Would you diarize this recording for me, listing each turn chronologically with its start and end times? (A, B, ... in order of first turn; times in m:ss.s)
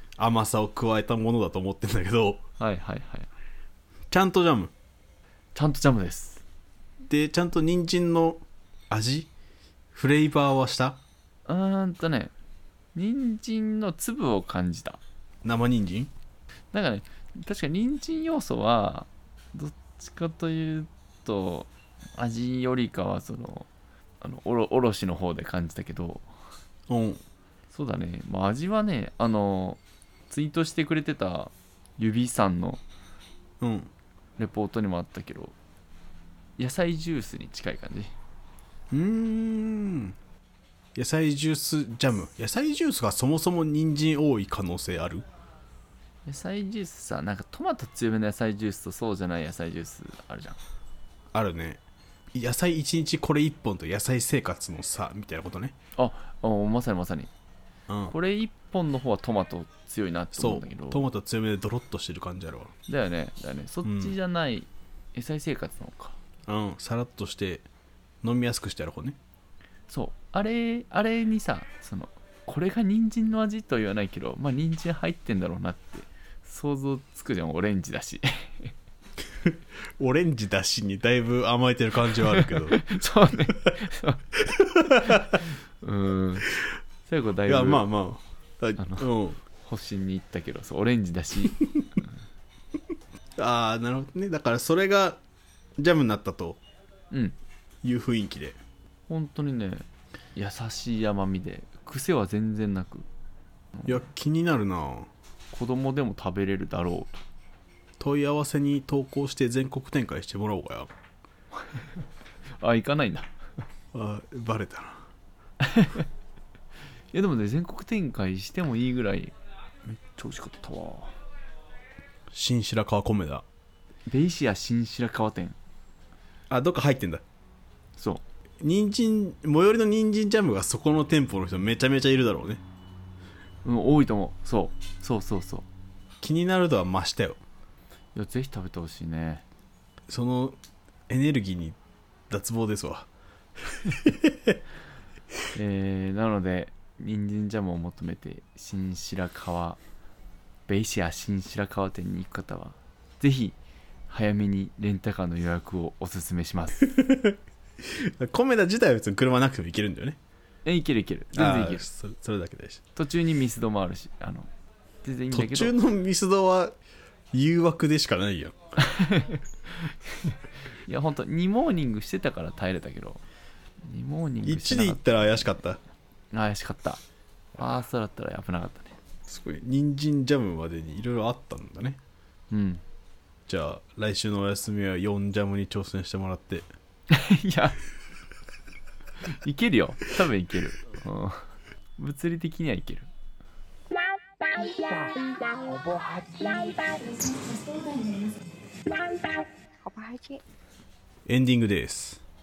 0:00.2-0:02.4 A
0:02.6-0:03.3 B
0:04.1-0:04.7 A
0:05.5-0:06.4 B
0:07.0-0:09.3 A
0:09.9-0:11.0 A
0:11.5-0:12.3 B
0:12.9-0:15.0 B
0:15.4-0:16.1 A
0:16.7-0:23.7 B
0:24.2-0:26.2 B
0:26.9-0:27.2 A
0:27.7-0:32.8 B
0:33.6-0:33.9 A
0:34.4-0:35.6 B
0:36.6-0:38.1 B
0:38.9-0:40.2 A
0:40.9-0:45.2 A
0:46.2-0:50.6 B
0:51.3-0:51.8 A
0:52.3-0:55.7 A
0:56.0-0:57.3 B
0:57.9-0:58.1 A
0:58.1-1:01.0 B
1:00.4-1:02.7 A
1:02.9-1:06.2 B
1:03.8-1:04.1 A
1:06.5-1:07.6 A
1:08.2-1:09.2 A
1:09.9-1:18.7 B
1:19.4-1:22.8 A
1:22.2-1:24.2 B
1:24.4-1:25.4 A
1:25.0-1:27.8 B
1:27.4-1:29.4 A
1:28.8-1:29.1 B
1:29.6-1:31.6 B
1:33.4-1:35.2 A
1:35.8-1:36.6 A
1:37.1-1:37.4 B
1:37.8-1:38.6 A
1:39.1-1:43.1 B
1:43.8-1:45.1 A
1:45.5-1:47.2 B
1:48.0-1:50.9 A
1:52.6-1:53.3 B
1:53.9-1:55.0 A
1:55.6-1:56.0 B
1:57.1-1:59.3 B
1:59.8-2:01.1 B
2:02.3-2:03.4 A
2:04.1-2:05.6 B
2:06.5-2:07.2 A
2:08.0-2:08.2 B
2:08.6-2:12.6 A
2:13.6-2:15.7 B
2:16.2-2:17.4 A
2:18.1-2:19.4 B
2:20.1-2:20.6 A
2:21.1-2:21.8 A
2:22.3-2:23.1 A
2:23.6-2:24.6 A
2:25.5-2:29.8 B
2:30.7-2:33.6 B
2:34.1-2:36.9 B
2:36.8-2:40.2 A
2:40.6-2:41.8 B
2:41.3-2:42.8 A
2:43.0-2:44.5 B
2:45.0-2:45.7 B
2:45.3-2:46.7 A
2:47.3-2:48.6 A
2:48.8-2:53.2 B
2:53.8-2:55.6 B
2:54.4-2:55.8 A
2:56.3-2:57.0 B
2:57.5-2:59.0 B
2:59.3-3:02.0 A
3:02.5-3:02.8 B
3:03.5-3:06.7 A
3:07.1-3:07.8 B
3:09.2-3:13.1 B
3:14.4-3:20.4 C
3:21.2-3:22.2 A